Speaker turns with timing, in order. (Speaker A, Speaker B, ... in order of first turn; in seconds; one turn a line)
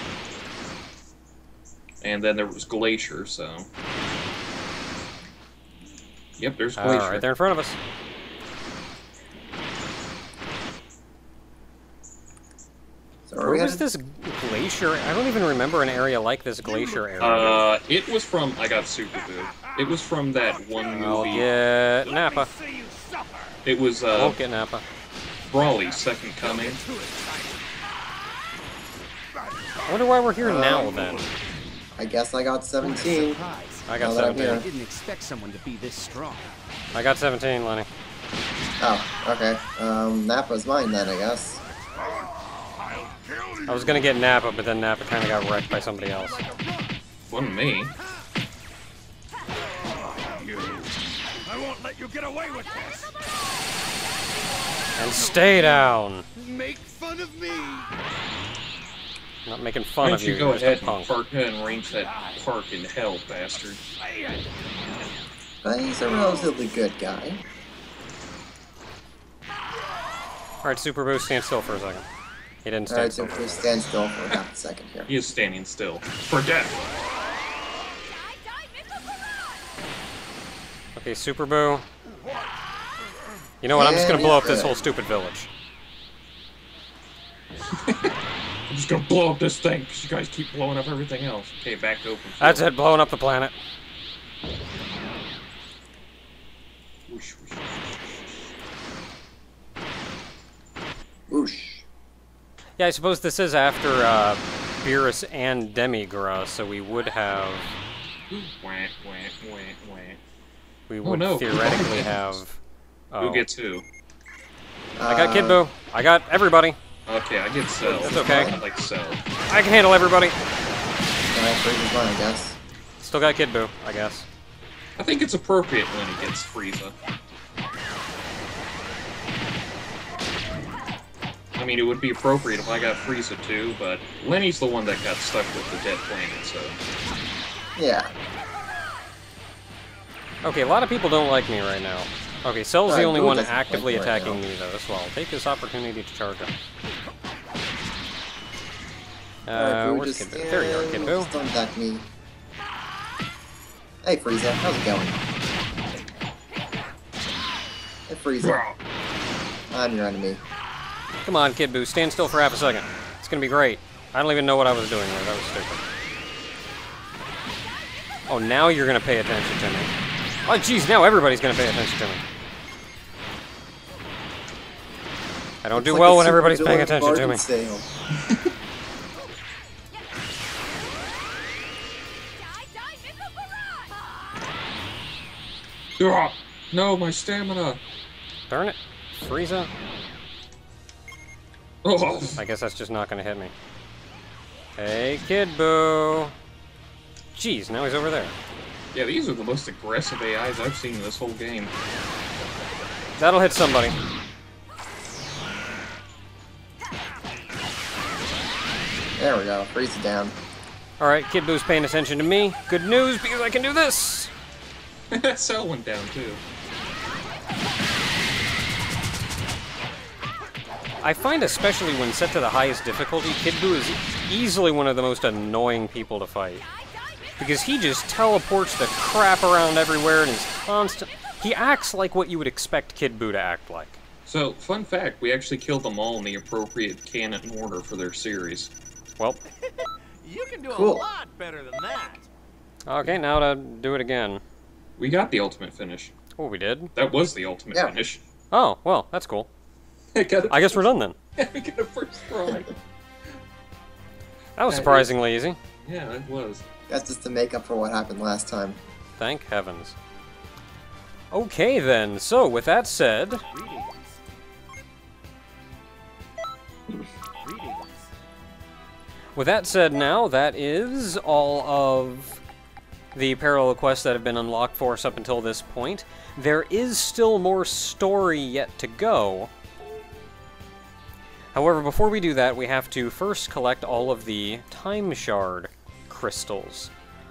Speaker A: 2.0-3.7
Speaker A: 6.4-7.3
Speaker B: 6.8-7.8
Speaker C: 13.3-13.8
Speaker B: 13.4-17.7
Speaker D: 16.6-17.6
Speaker A: 17.2-21.5
Speaker D: 19.1-23.6
Speaker B: 20.9-22.5
Speaker A: 23.6-24.4
Speaker B: 24.1-24.8
Speaker A: 25.5-26.8
Speaker D: 25.6-27.7
Speaker D: 29.3-31.4
Speaker B: 29.9-31.3
Speaker C: 30.4-31.0
Speaker C: 31.9-33.4
Speaker E: 32.8-36.5
Speaker B: 33.9-34.6
Speaker C: 34.0-34.7
Speaker B: 36.9-37.9
Speaker C: 38.8-41.6
Speaker D: 41.9-44.1
Speaker B: 43.6-46.4
Speaker D: 45.7-47.0
Speaker A: 47.3-47.9
Speaker D: 48.0-48.2
Speaker D: 49.5-53.2
Speaker D: 54.4-57.9
Speaker B: 55.0-56.2
Speaker B: 59.5-61.1
Speaker A: 60.0-63.8
Speaker D: 61.6-62.4
Speaker D: 63.5-64.5
Speaker C: 65.6-67.4
Speaker B: 70.6-72.0
Speaker B: 72.6-73.7
Speaker C: 72.9-75.1
Speaker A: 75.1-76.8
Speaker F: 78.0-79.2
Speaker B: 81.0-81.8
Speaker B: 83.6-85.5
Speaker C: 83.7-84.8
Speaker A: 87.7-88.1
Speaker A: 88.7-92.6
Speaker B: 92.4-93.5
Speaker A: 97.1-98.5
Speaker C: 101.3-101.8
Speaker B: 102.8-107.7
Speaker A: 108.3-110.2
Speaker B: 110.9-112.6
Speaker A: 111.0-112.4
Speaker B: 113.1-113.5
Speaker A: 113.2-113.8
Speaker C: 115.0-115.6
Speaker B: 115.0-116.8
Speaker A: 117.1-119.2
Speaker C: 117.8-118.6
Speaker B: 118.0-118.5
Speaker B: 119.5-120.3
Speaker C: 121.3-122.6
Speaker B: 123.0-124.3
Speaker A: 125.0-127.0
Speaker A: 131.6-136.8
Speaker C: 137.8-138.1
Speaker B: 140.4-146.5
Speaker C: 142.8-144.4
Speaker B: 149.5-151.3
Speaker C: 149.5-152.1
Speaker C: 154.0-155.2
Speaker C: 158.1-158.6
Speaker A: 158.4-158.7
Speaker C: 159.7-160.4
Speaker B: 161.2-165.8
Speaker B: 168.3-169.9
Speaker B: 170.4-172.2
Speaker B: 175.6-177.4
Speaker C: 175.7-177.9
Speaker F: 182.4-183.9
Speaker A: 186.0-187.8
Speaker B: 188.5-189.7
Speaker A: 191.8-192.4
Speaker B: 192.4-193.5
Speaker B: 194.8-196.3
Speaker B: 197.3-198.3
Speaker A: 198.9-201.7
Speaker B: 203.2-203.9
Speaker C: 209.2-210.3
Speaker B: 211.0-214.3
Speaker A: 215.1-216.4
Speaker B: 221.0-226.6
Speaker F: 226.6-227.2
Speaker B: 227.4-234.0
Speaker A: 234.2-238.7
Speaker D: 239.6-242.3
Speaker C: 240.7-241.1
Speaker B: 242.9-244.4
Speaker A: 245.0-246.1
Speaker B: 246.3-246.9
Speaker A: 246.9-248.2
Speaker B: 248.5-249.5
Speaker A: 250.1-252.7
Speaker B: 250.5-251.2
Speaker B: 254.6-255.6
Speaker A: 254.7-255.1
Speaker A: 255.8-256.6
Speaker C: 256.9-258.8
Speaker B: 259.2-259.9
Speaker B: 261.3-263.4
Speaker D: 263.5-264.2
Speaker D: 267.3-268.1
Speaker B: 269.4-272.4
Speaker B: 273.1-279.5
Speaker B: 281.5-286.9